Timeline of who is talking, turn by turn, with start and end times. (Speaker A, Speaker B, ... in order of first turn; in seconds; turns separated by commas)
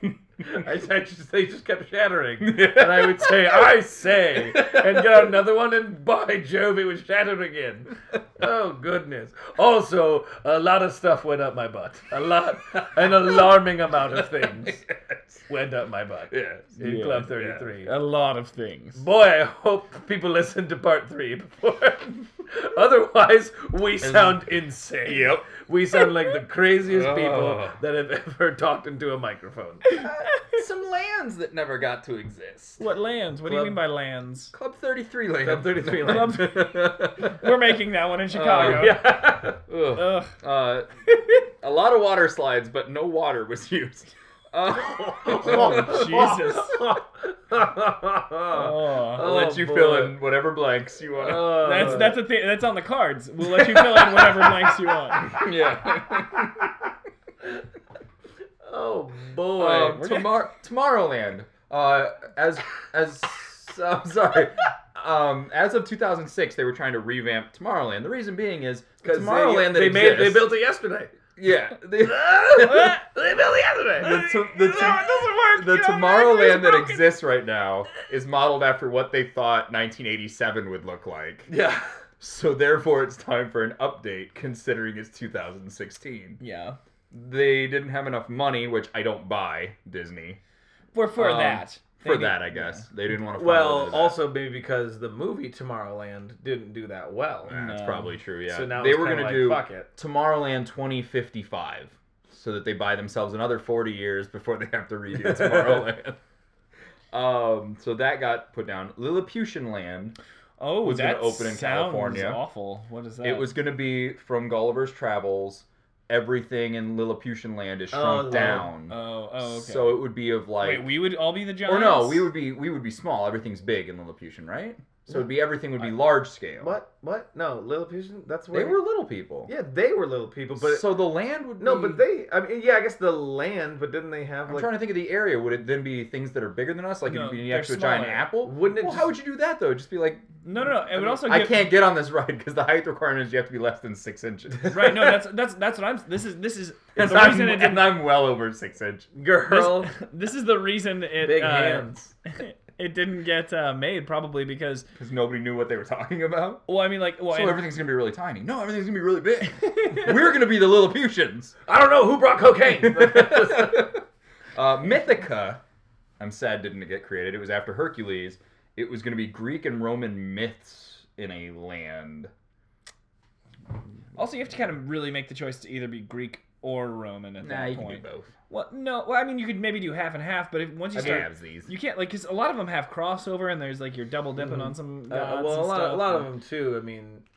Speaker A: 0.4-14.8, Speaker B: 2.4-3.7, Speaker B: 4.5-4.8, Speaker B: 14.3-15.4, Speaker A: 15.5-17.9, Speaker B: 16.3-16.8, Speaker C: 16.8-19.0, Speaker B: 17.3-17.6, Speaker A: 18.9-29.9, Speaker B: 24.0-24.4, Speaker B: 25.0-25.5, Speaker B: 26.9-27.8, Speaker C: 29.9-30.4, Speaker B: 29.9-32.8, Speaker C: 32.8-34.5, Speaker A: 33.5-33.8, Speaker B: 34.5-37.5, Speaker A: 35.4-36.4, Speaker C: 35.9-39.1, Speaker B: 38.3-39.0, Speaker A: 38.4-39.6, Speaker B: 39.7-46.3, Speaker C: 39.9-40.3, Speaker A: 45.1-50.2, Speaker C: 45.4-46.9, Speaker C: 48.5-49.2, Speaker B: 49.1-52.2, Speaker A: 51.1-52.2, Speaker C: 51.5-55.3, Speaker B: 53.6-54.5, Speaker B: 55.2-56.7, Speaker A: 58.6-60.1, Speaker B: 59.6-70.5, Speaker C: 60.0-60.3, Speaker A: 69.0-71.1, Speaker B: 71.4-73.0, Speaker A: 72.0-74.3, Speaker B: 74.0-81.5, Speaker C: 74.2-77.1, Speaker A: 81.5-81.8, Speaker B: 82.2-86.4, Speaker C: 86.4-86.8, Speaker B: 87.1-90.4, Speaker C: 90.9-92.8, Speaker B: 91.2-94.2, Speaker A: 93.3-97.5, Speaker B: 97.5-106.2, Speaker C: 97.5-98.2, Speaker A: 98.5-99.9, Speaker A: 105.2-105.8, Speaker B: 107.1-110.2, Speaker C: 110.6-113.5, Speaker B: 110.8-112.4, Speaker B: 113.2-120.9, Speaker A: 117.9-118.7, Speaker C: 118.3-122.3, Speaker B: 121.6-126.7, Speaker A: 126.6-128.8, Speaker B: 128.5-129.5, Speaker A: 129.4-131.0, Speaker B: 130.6-132.0, Speaker A: 131.6-134.7, Speaker B: 134.5-140.3, Speaker C: 137.1-138.3, Speaker A: 138.4-139.1, Speaker C: 140.4-141.7, Speaker B: 140.9-145.1, Speaker C: 144.7-148.0, Speaker B: 146.9-149.1, Speaker A: 149.1-149.9, Speaker C: 149.5-154.8, Speaker A: 151.2-152.1, Speaker B: 155.0-156.6, Speaker C: 156.7-157.6, Speaker B: 157.3-161.5, Speaker C: 159.6-160.1, Speaker A: 161.7-163.9, Speaker B: 162.8-164.0, Speaker B: 164.5-165.6, Speaker B: 166.2-172.3, Speaker C: 174.2-186.3, Speaker B: 177.4-178.3, Speaker B: 180.9-181.7, Speaker A: 180.9-181.2, Speaker A: 184.4-187.2